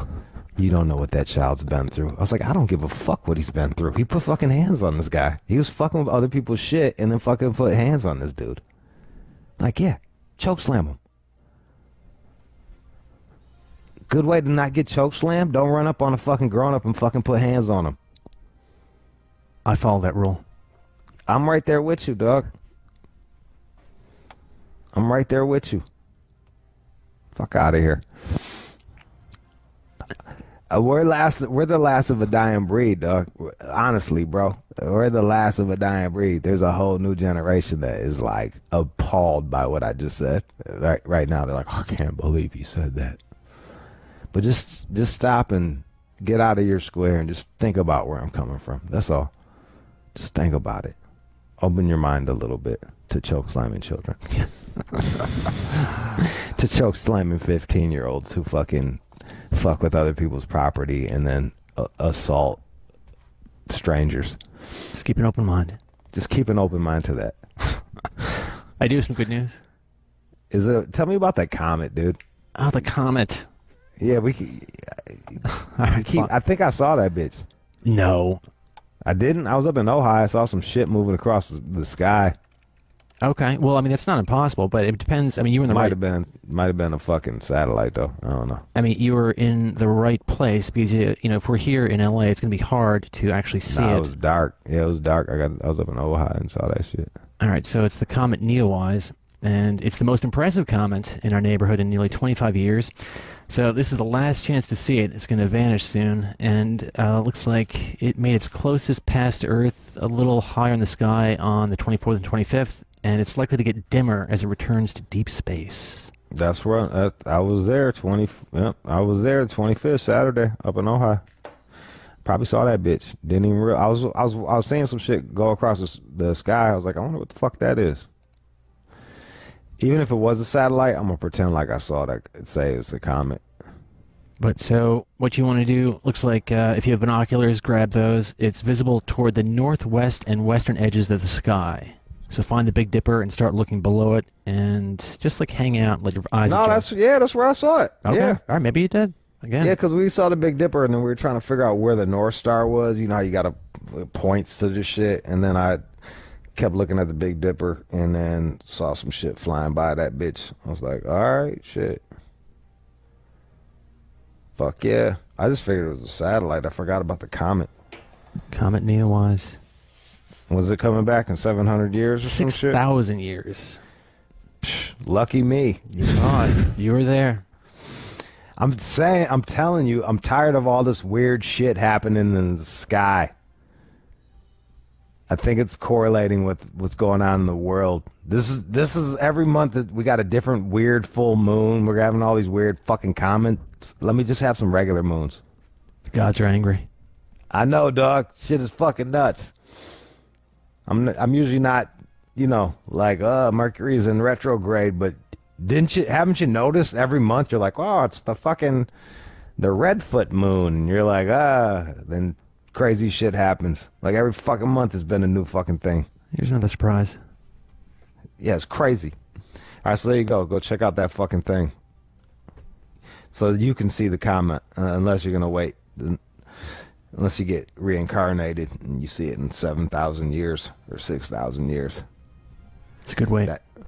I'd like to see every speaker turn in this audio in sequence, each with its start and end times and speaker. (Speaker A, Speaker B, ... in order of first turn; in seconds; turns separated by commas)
Speaker A: 0.6-8.6, Speaker A: 9.6-11.0, Speaker A: 14.1-18.0, Speaker B: 19.6-20.4, Speaker A: 21.3-22.5, Speaker A: 24.9-25.9, Speaker A: 27.3-28.7, Speaker A: 30.7-43.2, Speaker A: 44.3-49.3, Speaker A: 50.1-51.0, Speaker A: 51.6-54.4, Speaker A: 56.4-62.6, Speaker A: 63.7-64.4, Speaker B: 64.9-65.8, Speaker A: 66.1-67.4, Speaker B: 68.8-69.6, Speaker A: 70.5-72.2, Speaker B: 72.6-73.5, Speaker A: 74.0-77.5, Speaker B: 75.5-76.3, Speaker B: 77.8-78.4, Speaker A: 79.0-82.4, Speaker B: 83.2-86.0, Speaker A: 85.7-88.7, Speaker B: 88.8-94.1, Speaker A: 93.7-97.1, Speaker B: 97.4-116.1, Speaker A: 116.3-121.2, Speaker A: 122.2-128.1, Speaker A: 129.8-133.4, Speaker B: 134.4-146.9, Speaker A: 146.5-148.4, Speaker B: 148.1-149.7, Speaker A: 149.6-155.8, Speaker A: 156.6-162.0, Speaker A: 164.6-167.7, Speaker B: 168.5-169.6, Speaker A: 170.5-172.8, Speaker B: 172.2-173.8, Speaker A: 174.6-176.7, Speaker B: 176.0-177.4, Speaker A: 178.6-183.3, Speaker A: 185.3-195.4, Speaker B: 196.1-196.9, Speaker A: 197.5-199.5, Speaker A: 200.9-208.9, Speaker A: 209.6-216.1, Speaker B: 216.3-217.2, Speaker A: 218.4-219.2, Speaker A: 219.8-221.7, Speaker A: 223.3-232.1, Speaker B: 233.1-233.5